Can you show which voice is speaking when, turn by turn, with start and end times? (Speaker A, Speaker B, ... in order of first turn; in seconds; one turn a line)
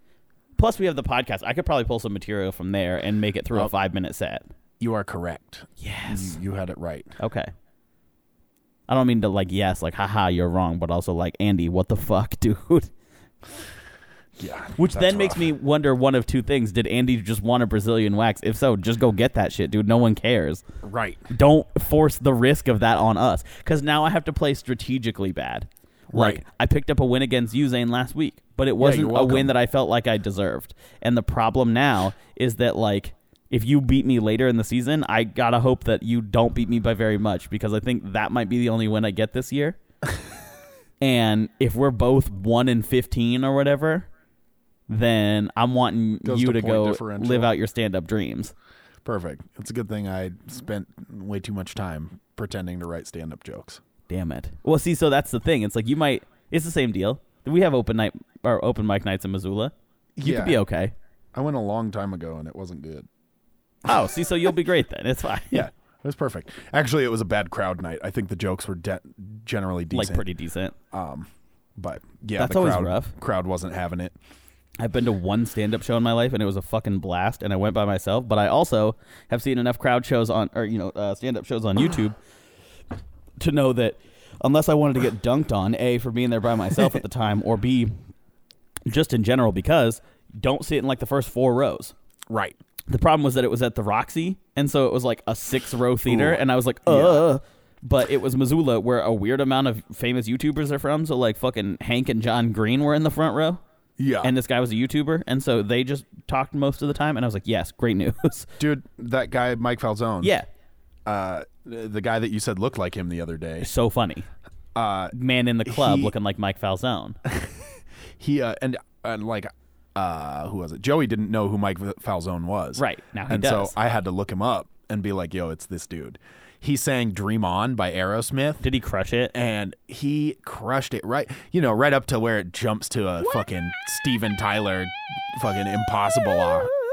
Speaker A: 0.6-4.5
Speaker B: 4.8-7.1
Speaker A: 5.8-6.4
Speaker A: 7.2-7.5
Speaker A: 8.9-12.9
Speaker B: 14.4-15.5
Speaker A: 14.8-20.6
Speaker B: 20.8-21.3
Speaker A: 21.3-39.8
Speaker B: 26.1-26.4
Speaker B: 28.8-29.5
Speaker A: 41.0-44.1
Speaker A: 44.9-48.5
Speaker B: 46.2-47.5
Speaker B: 49.0-53.8
Speaker A: 54.1-60.9
Speaker B: 60.2-60.6
Speaker B: 61.3-63.1
Speaker A: 63.9-65.7
Speaker B: 65.5-70.3
Speaker A: 69.9-70.8
Speaker B: 70.9-74.2
Speaker A: 72.4-73.1
Speaker A: 74.8-82.2
Speaker A: 83.4-87.9
Speaker A: 88.9-91.9
Speaker B: 92.3-92.6
Speaker A: 92.9-103.6
Speaker B: 96.0-97.2
Speaker B: 104.0-104.3
Speaker A: 104.2-108.5
Speaker B: 108.6-110.3
Speaker A: 110.2-110.5
Speaker B: 111.0-113.7
Speaker A: 113.6-114.3
Speaker B: 114.8-115.1
Speaker A: 115.1-117.2
Speaker B: 115.7-116.1
Speaker B: 117.3-117.6
Speaker B: 118.2-128.7
Speaker A: 122.8-123.8
Speaker A: 128.6-129.3
Speaker B: 129.3-136.7